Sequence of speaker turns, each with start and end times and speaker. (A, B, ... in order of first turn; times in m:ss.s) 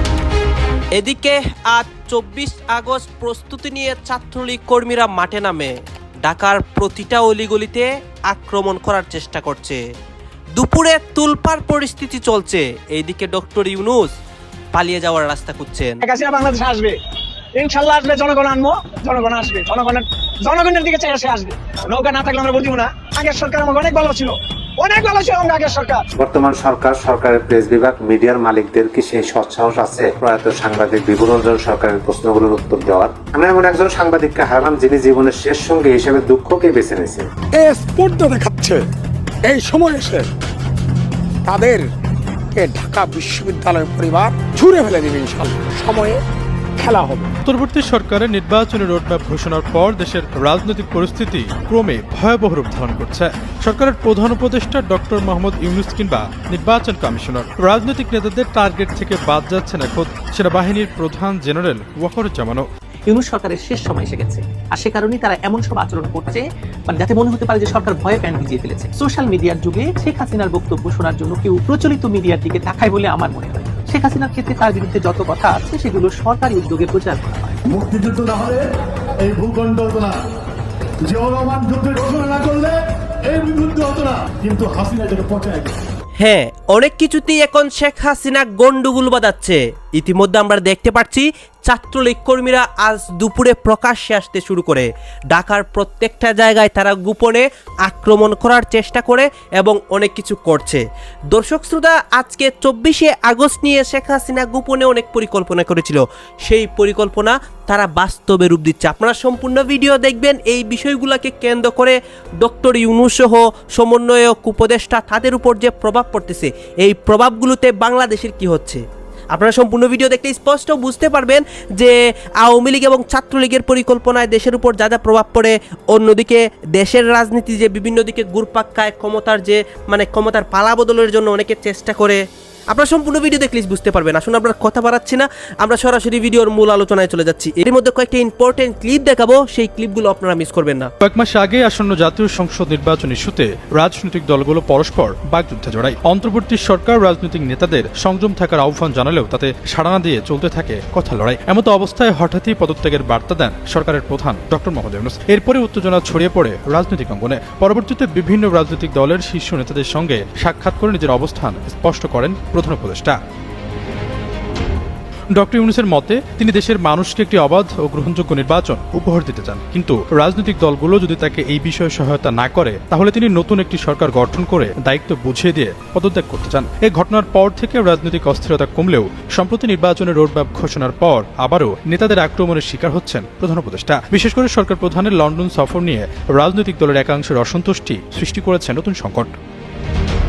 0:01.0-0:09.8 A
0:10.6-0:14.2 A
0:14.7-0:16.0 A
0:16.0-0:17.0 B
0:17.6-0:26.0 B
0:26.2-0:37.3 C
0:37.6-0:38.8 D
0:39.5-0:40.3 D
0:41.5-0:41.8 D
0:42.6-0:46.2 D
0:46.8-0:47.3 D
0:47.5-1:02.7 E
1:03.1-1:17.6 F
1:17.7-1:18.6 G
1:19.2-1:20.2 G
1:21.1-1:25.8 G
1:26.2-1:40.8 A
1:41.3-1:58.8 A
1:59.3-2:12.2 A
2:12.7-2:20.9 A
2:21.0-2:43.2 E
2:45.3-3:09.3 E